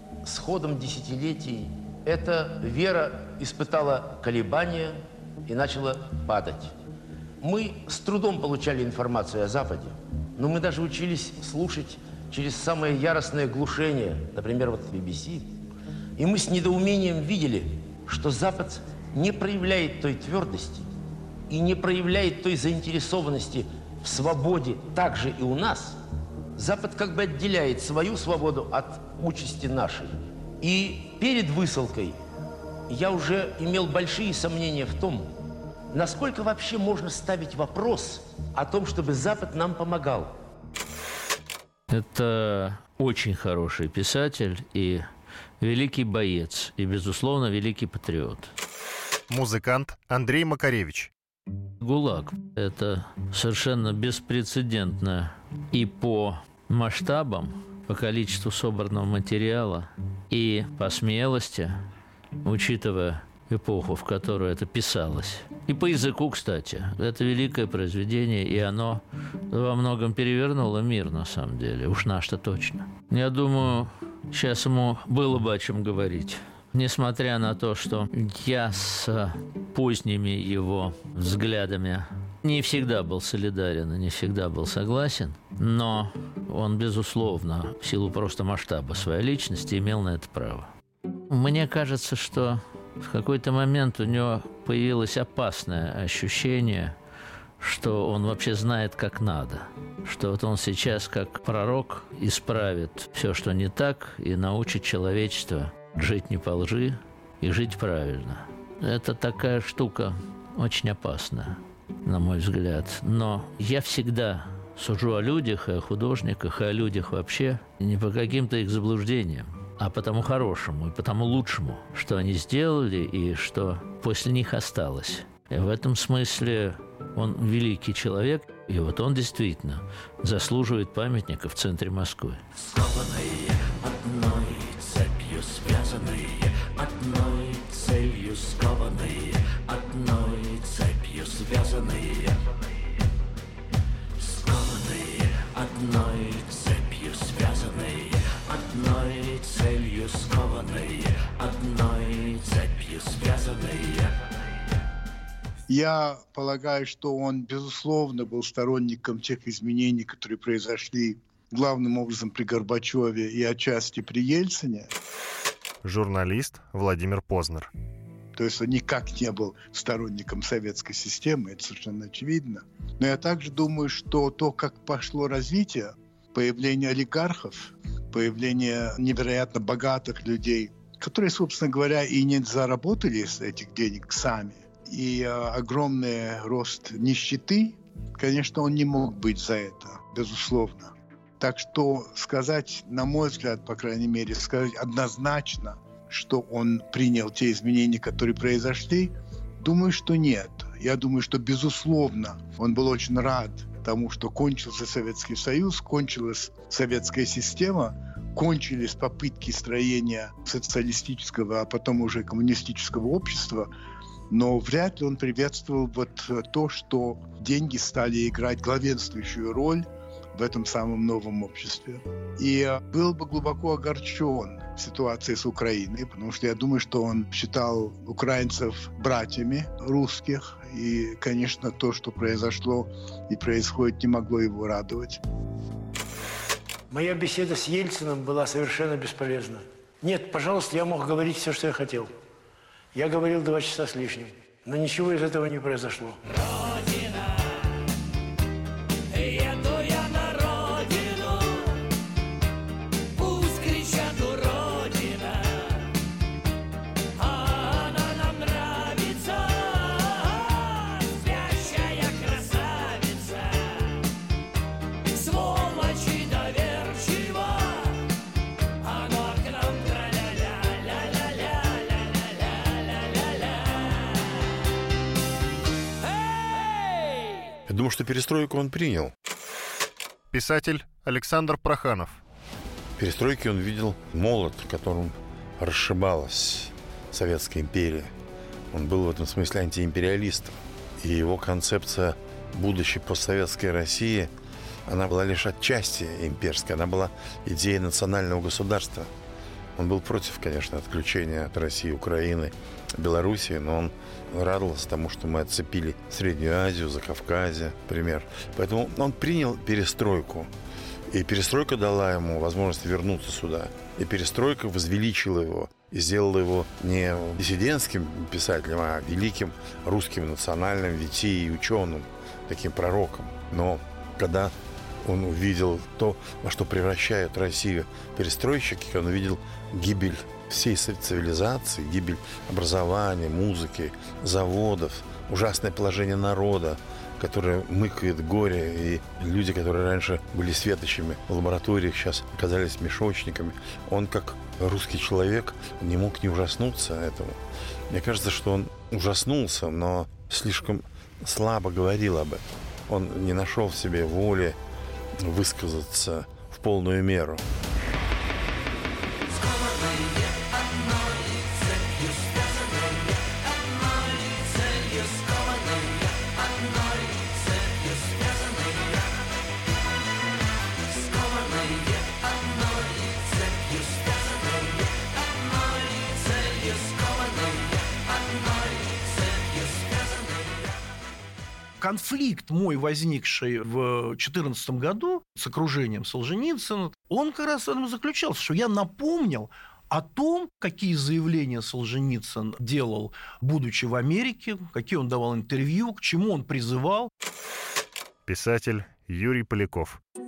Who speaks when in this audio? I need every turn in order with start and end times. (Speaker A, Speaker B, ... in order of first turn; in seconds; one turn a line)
Speaker A: 0.2-6.7
Speaker A: 7.4-15.5
Speaker A: 16.2-20.9
Speaker A: 21.5-26.0
Speaker A: 26.6-32.2
Speaker A: 32.9-35.3
Speaker A: 35.9-40.4
Speaker B: 41.9-45.0
Speaker B: 45.6-48.5
Speaker C: 49.3-51.1
Speaker B: 51.8-61.8
Speaker B: 62.4-90.7
Speaker B: 91.3-97.0
Speaker B: 97.6-132.4
Speaker D: 132.6-142.4
Speaker D: 144.2-154.1
Speaker E: 155.7-164.9
Speaker C: 165.8-167.7
Speaker E: 168.4-213.7
Speaker E: 214.3-235.2
Speaker F: 236.9-242.1
Speaker F: 242.9-246.2
Speaker G: 277.7-279.1
Speaker C: 280.3-282.2
Speaker G: 283.0-288.1
Speaker G: 288.7-294.3
Speaker G: 294.9-299.1
Speaker G: 299.8-310.5
Speaker G: 311.1-347.4
Speaker G: 347.9-354.6
Speaker G: 355.2-357.4
Speaker D: 364.2-365.9
Speaker D: 366.9-368.5
Speaker D: 371.0-371.8
Speaker D: 373.5-373.8
Speaker D: 376.7-377.3
Speaker H: 381.8-397.1
Speaker C: 398.2-400.0